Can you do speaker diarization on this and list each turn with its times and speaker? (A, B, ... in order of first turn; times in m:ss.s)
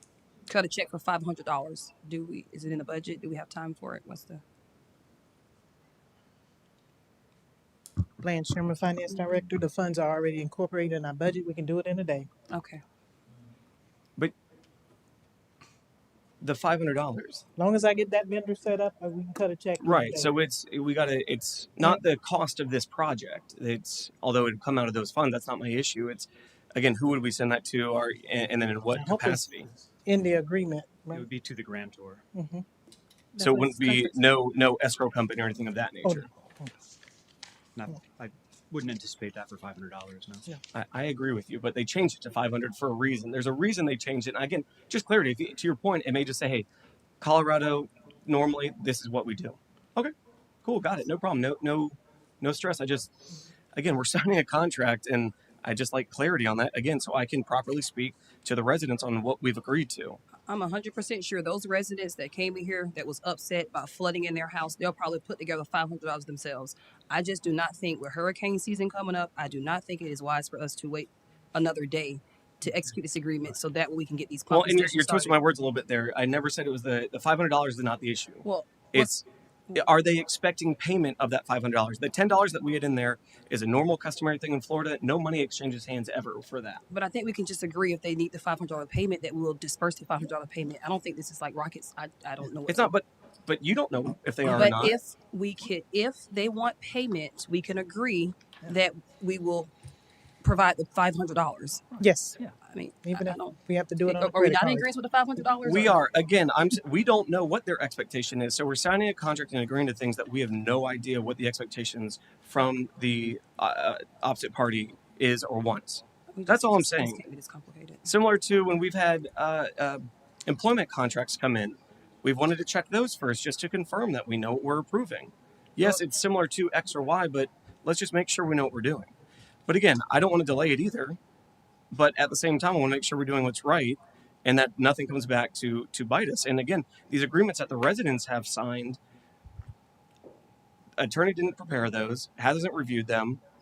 0:00.5-0:04.4 A
0:08.2-0:12.3 B
0:12.5-0:12.8 A
0:16.4-0:17.4 C
0:17.6-0:20.3 B
0:19.8-0:29.7 C
0:28.9-0:29.4 B
0:30.1-0:31.2 B
0:31.1-0:32.2 D
0:32.3-0:32.6 B
0:33.4-0:34.1 B
0:33.4-0:36.3 C
0:36.0-0:36.7 B
0:37.8-0:40.5 D
0:40.7-0:46.7 C
0:47.2-0:50.1 C
0:50.6-0:53.1 C
0:53.8-1:00.2 C
1:00.5-1:15.4 A
1:14.5-1:26.8 C
1:18.4-1:19.1 A
1:26.9-1:32.9 A
1:32.7-1:35.0 C
1:34.5-1:39.7 A
1:40.4-1:41.9 A
1:42.0-1:42.4 B
1:42.7-1:46.0 A
1:43.0-1:44.8 B
1:45.6-1:57.2 C
1:56.3-1:58.1 A
1:58.0-2:09.1 C
2:09.7-2:11.2 C
2:11.9-2:19.0 C
2:21.0-2:23.4 C